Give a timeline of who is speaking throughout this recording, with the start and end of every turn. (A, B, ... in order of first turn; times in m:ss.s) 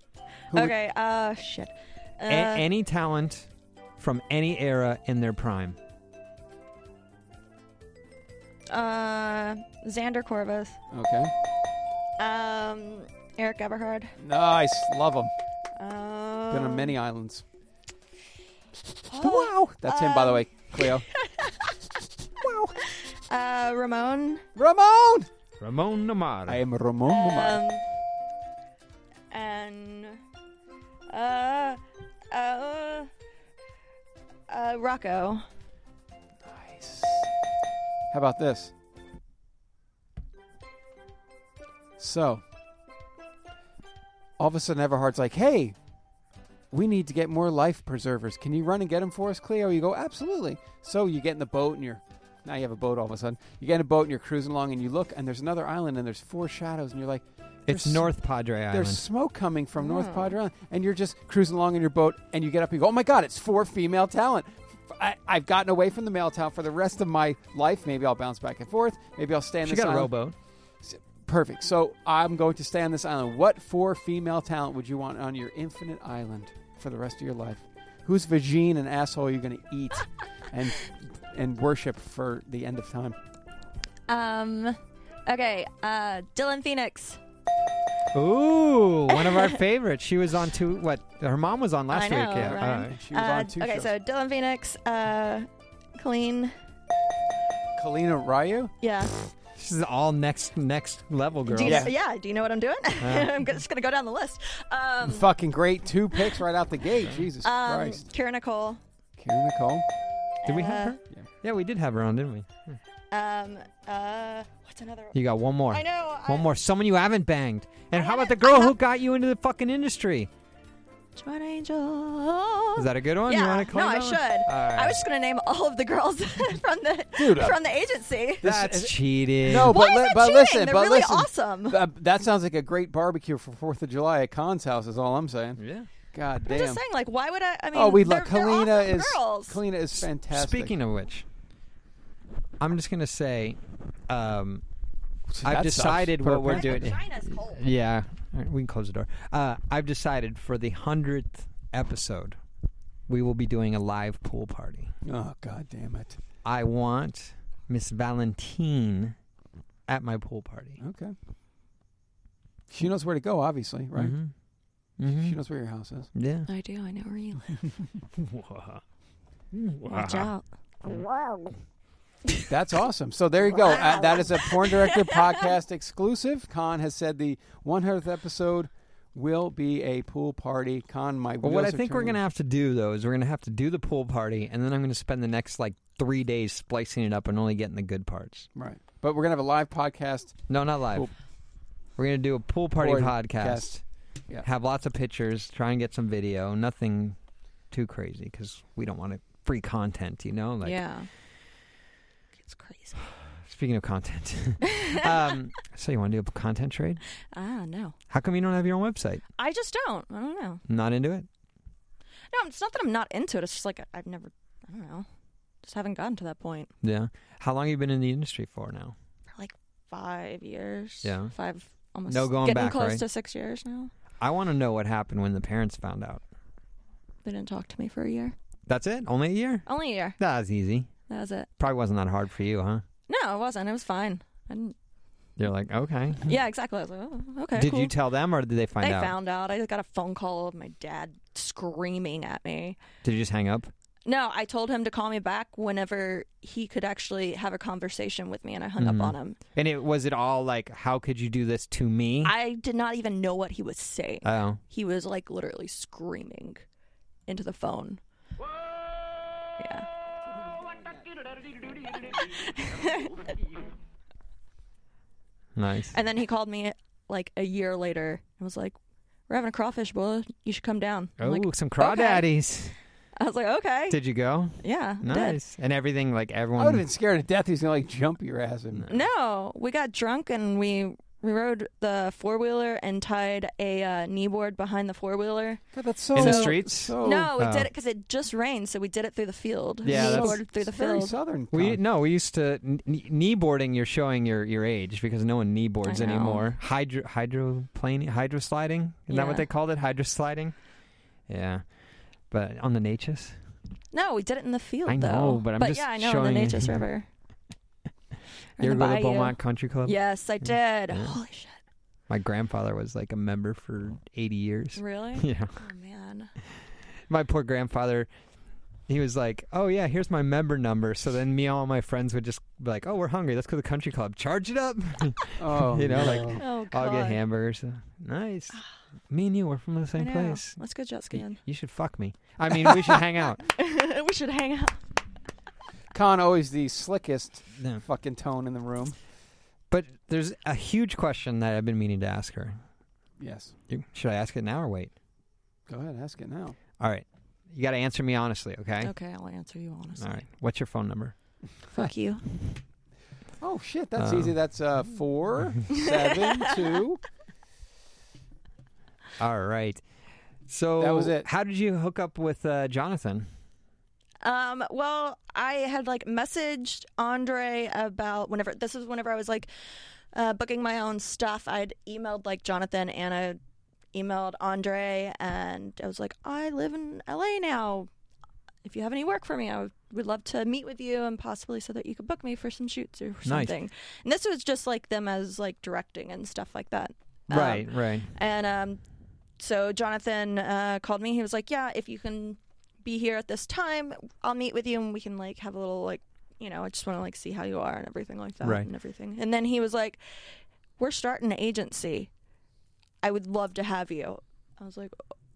0:00.5-0:02.7 A
0:02.3-0:05.8 B
0:08.7-0:10.8 A
0:10.9-0:11.3 C
0:12.2-0:14.1 A
0:14.2-0:15.3 C
0:15.8-0:16.9 A
0:16.5-0:17.4 C
0:19.1-0:21.7 A
0:19.2-0:21.1 C
0:22.4-0:22.8 C
0:23.3-0:24.4 A
0:24.6-0:25.3 C
0:25.6-0:26.6 B
0:26.5-0:27.6 C
0:27.1-0:27.8 A
0:29.3-0:30.2 A
0:31.1-0:31.8 A
0:32.3-0:33.1 A
0:34.5-0:35.4 A
0:36.4-0:37.3 C
0:38.1-0:38.7 C
0:42.0-0:42.4 C
0:44.4-0:45.8 C
0:46.7-0:58.1 C
0:57.7-0:59.0 B
0:58.7-1:10.1 C
0:59.8-1:00.4 A
1:09.6-1:10.4 B
1:10.8-1:23.2 C
1:24.1-1:27.2 A
1:28.1-1:33.0 B
1:29.1-1:29.5 A
1:31.9-1:36.5 A
1:32.4-1:33.9 C
1:37.8-1:38.7 C
1:38.8-1:39.3 A
1:39.6-1:41.9 B
1:41.5-1:45.3 A
1:41.6-1:41.9 C
1:43.0-1:43.5 B
1:45.0-1:48.0 C
1:47.4-1:48.8 A
1:49.2-1:49.9 C
1:50.4-1:51.0 A
1:50.5-1:52.8 B
1:53.1-1:55.2 A
1:55.1-2:00.3 B
1:55.7-1:56.5 A
1:57.9-1:58.8 A
2:01.2-2:08.4 A
2:02.8-2:05.0 B
2:07.2-2:07.6 C
2:08.4-2:09.8 B
2:08.4-2:15.6 C
2:09.5-2:11.8 A
2:15.6-2:15.9 B
2:16.1-2:16.8 C
2:16.5-2:19.6 A
2:17.7-2:20.8 C
2:20.3-2:21.3 B
2:22.6-2:24.6 B
2:25.3-2:26.9 C
2:25.4-2:32.4 B
2:26.5-2:27.6 A
2:33.1-2:35.0 B
2:35.0-2:36.2 C
2:36.4-2:39.2 B
2:39.9-2:40.8 B
2:40.8-2:41.2 C
2:42.7-2:44.2 C
2:44.0-2:44.3 B
2:45.0-2:45.4 B
2:45.2-2:46.1 C
2:46.1-2:46.5 B
2:46.5-2:47.5 A
2:48.2-2:48.8 B
2:49.5-2:50.3 B
2:49.9-2:50.4 A
2:52.5-3:02.2 C
2:53.6-2:54.9 A
3:01.4-3:08.5 B
3:08.6-3:11.1 C
3:10.5-3:11.1 B
3:12.0-3:13.8 B
3:12.8-3:13.7 C
3:14.4-3:17.2 B
3:17.7-3:20.8 B
3:20.6-3:21.1 A
3:22.4-3:23.0 A
3:23.3-3:27.0 B
3:24.6-3:25.1 A
3:27.3-3:28.0 A
3:28.1-3:29.2 B
3:29.4-3:30.6 A
3:30.7-3:31.3 B
3:32.3-3:35.1 A
3:35.6-3:36.7 A
3:36.8-3:39.0 B
3:39.3-3:43.9 A
3:41.0-3:41.3 B
3:42.1-3:43.0 B
3:44.2-3:46.2 B
3:47.2-3:48.4 A
3:48.7-3:49.7 B
3:49.7-3:50.2 A
3:50.2-3:50.9 B
3:51.1-3:51.5 A
3:51.6-3:52.8 B
3:53.1-3:54.8 A
3:55.4-3:56.4 B
3:56.2-3:57.9 A
3:57.5-3:59.2 B
3:58.8-4:02.8 A
4:03.0-4:03.7 B
4:04.1-4:09.4 A
4:08.8-4:12.3 B
4:12.2-4:16.6 A
4:14.2-4:14.6 B
4:17.3-4:18.0 A
4:19.6-4:19.9 A
4:22.2-4:23.3 A
4:25.6-4:26.0 B
4:25.9-4:28.8 A
4:29.3-4:32.3 A
4:31.2-4:32.8 B
4:33.2-4:34.0 A
4:33.9-4:36.8 B
4:34.6-4:35.4 A
4:36.6-4:39.0 C
4:38.9-4:45.6 A
4:45.7-4:47.3 C
4:46.2-4:47.7 B
4:46.2-4:51.1 A
4:49.8-4:50.4 B
4:49.9-4:51.8 C
4:51.5-5:00.6 B
4:55.8-4:56.5 A
4:59.1-4:59.5 A
5:01.3-5:01.6 B
5:02.3-5:03.4 B
5:03.9-5:07.1 A
5:04.9-5:06.8 B
5:08.6-5:11.6 A
5:08.6-5:11.2 B
5:12.1-5:15.6 B
5:14.8-5:16.3 A
5:17.1-5:18.1 B
5:18.9-5:30.6 B
5:25.4-5:26.4 C
5:26.4-5:27.2 A
5:30.0-5:31.4 A
5:31.1-5:33.4 B
5:33.4-5:34.8 A
5:35.9-5:39.0 C
5:39.7-5:42.6 B
5:43.2-5:43.5 C
5:43.7-5:44.9 B
5:45.7-5:46.6 C
5:46.8-5:48.9 B
5:48.8-5:50.2 A
5:50.0-5:51.2 B
5:51.7-5:52.2 A
5:53.4-5:57.0 C
5:54.0-5:54.4 B
5:55.8-5:56.1 A
5:59.2-5:59.8 B
6:00.5-6:03.3 B
6:00.8-6:01.3 C
6:04.2-6:09.5 A
6:10.1-6:13.4 A
6:13.9-6:17.9 A
6:18.6-6:28.8 A
6:23.2-6:23.6 B
6:27.3-6:28.1 B
6:29.4-6:40.0 A
6:38.4-6:38.7 B
6:40.8-6:42.1 A
6:43.0-6:45.0 A